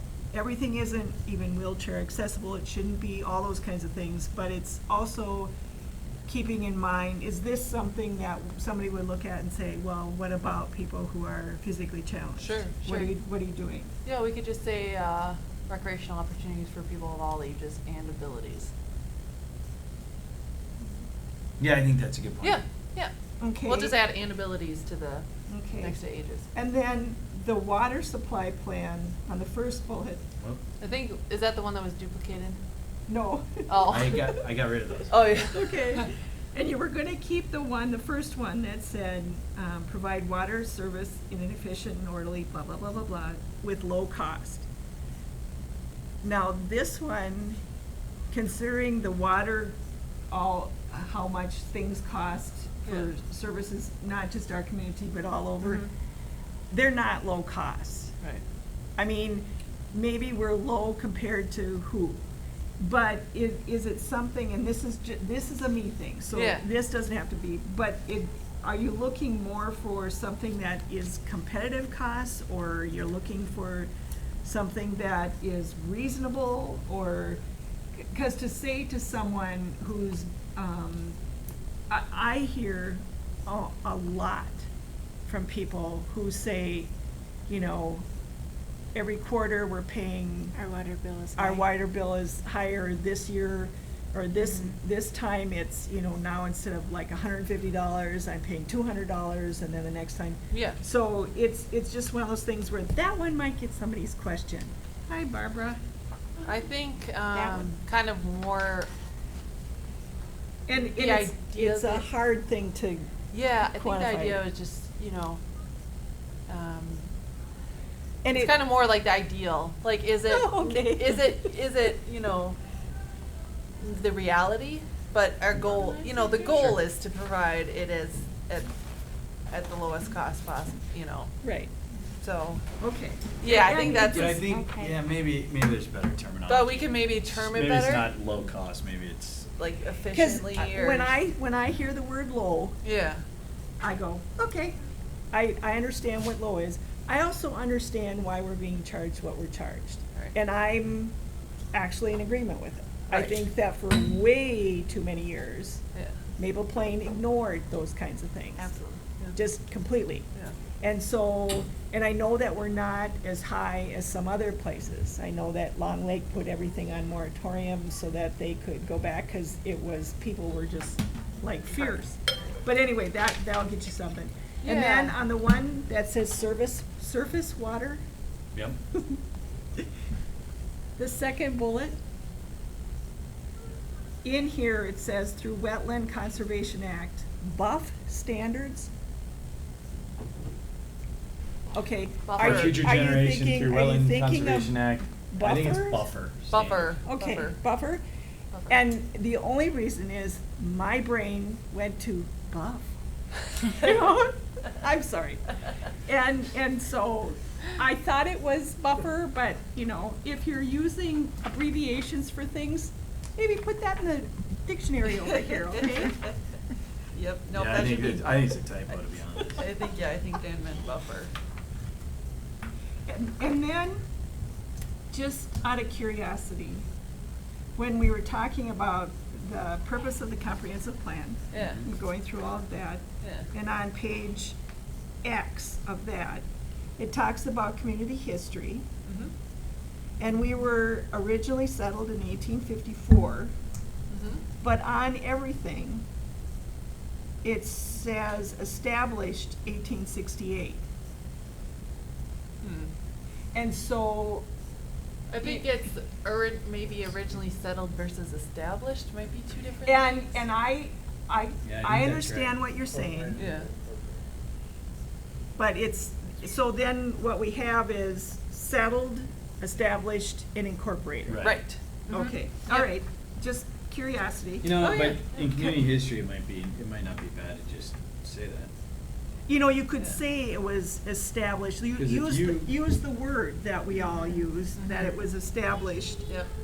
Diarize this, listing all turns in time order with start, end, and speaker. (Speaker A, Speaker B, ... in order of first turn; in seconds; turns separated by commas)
Speaker A: 0.3-5.5, Speaker A: 6.3-13.9, Speaker B: 12.4-13.1, Speaker B: 14.1-18.7, Speaker C: 21.6-22.6, Speaker B: 22.4-26.5, Speaker A: 23.4-24.0, Speaker A: 25.5-26.0, Speaker A: 26.5-30.2, Speaker B: 30.8-32.6, Speaker A: 33.1-34.2, Speaker B: 33.7-34.4, Speaker C: 33.9-35.3, Speaker B: 35.1-36.0, Speaker A: 35.5-44.7, Speaker A: 46.2-47.6, Speaker A: 48.3-49.8, Speaker A: 50.3-55.9, Speaker B: 55.6-55.9, Speaker A: 56.7-58.1, Speaker A: 59.0-62.2, Speaker A: 62.8-73.9, Speaker B: 66.3-66.6, Speaker A: 74.4-77.4, Speaker A: 78.0-81.2, Speaker A: 81.9-84.7, Speaker A: 85.3-86.9, Speaker A: 87.5-88.1, Speaker A: 88.9-90.5, Speaker D: 90.5-91.6, Speaker A: 91.4-105.8, Speaker D: 94.4-94.8, Speaker B: 100.5-100.8, Speaker B: 106.5-108.9, Speaker A: 110.7-114.4, Speaker B: 110.8-112.1, Speaker B: 113.3-115.4, Speaker B: 116.5-117.1, Speaker A: 118.2-118.6, Speaker B: 118.3-122.6, Speaker A: 120.3-121.5, Speaker B: 123.8-128.7, Speaker A: 125.8-126.5, Speaker C: 126.5-126.8, Speaker B: 129.5-131.4, Speaker A: 131.4-131.7, Speaker B: 132.2-132.6, Speaker A: 132.8-134.4, Speaker B: 133.4-134.4, Speaker C: 134.1-139.5, Speaker D: 134.2-135.0, Speaker B: 136.5-138.1, Speaker B: 139.6-141.1, Speaker A: 140.1-142.8, Speaker B: 142.8-143.2, Speaker A: 143.8-144.7, Speaker A: 145.3-151.2, Speaker A: 151.7-155.8, Speaker B: 153.1-153.4, Speaker A: 156.4-158.7, Speaker B: 158.6-159.4, Speaker A: 159.3-160.3, Speaker A: 160.8-178.0, Speaker B: 174.6-175.1, Speaker A: 181.0-182.0, Speaker A: 184.2-188.9, Speaker A: 191.7-194.8, Speaker B: 192.3-192.8, Speaker C: 192.4-197.0, Speaker A: 195.3-196.1, Speaker B: 196.5-197.6, Speaker A: 197.1-198.0, Speaker A: 198.7-202.9, Speaker A: 203.7-205.4, Speaker A: 206.0-216.2, Speaker B: 215.8-216.2, Speaker B: 217.1-218.4, Speaker C: 217.5-219.6, Speaker B: 219.4-221.3, Speaker A: 223.1-224.0, Speaker A: 225.1-226.8, Speaker A: 227.8-234.6, Speaker B: 231.5-231.8, Speaker B: 233.2-233.5, Speaker A: 235.2-236.5, Speaker A: 237.0-238.9, Speaker B: 239.1-239.3, Speaker A: 240.2-243.5, Speaker B: 244.1-244.4, Speaker A: 244.6-246.0, Speaker A: 247.4-250.8, Speaker B: 252.6-252.9, Speaker A: 253.5-254.5, Speaker B: 255.3-260.4, Speaker A: 259.9-263.4, Speaker C: 261.6-262.6, Speaker B: 263.4-263.7, Speaker A: 265.6-271.6, Speaker C: 271.3-271.6, Speaker B: 271.4-272.9, Speaker A: 272.1-274.9, Speaker C: 274.6-278.7, Speaker B: 274.8-275.4, Speaker A: 279.5-286.3, Speaker C: 282.0-282.7, Speaker B: 284.8-285.2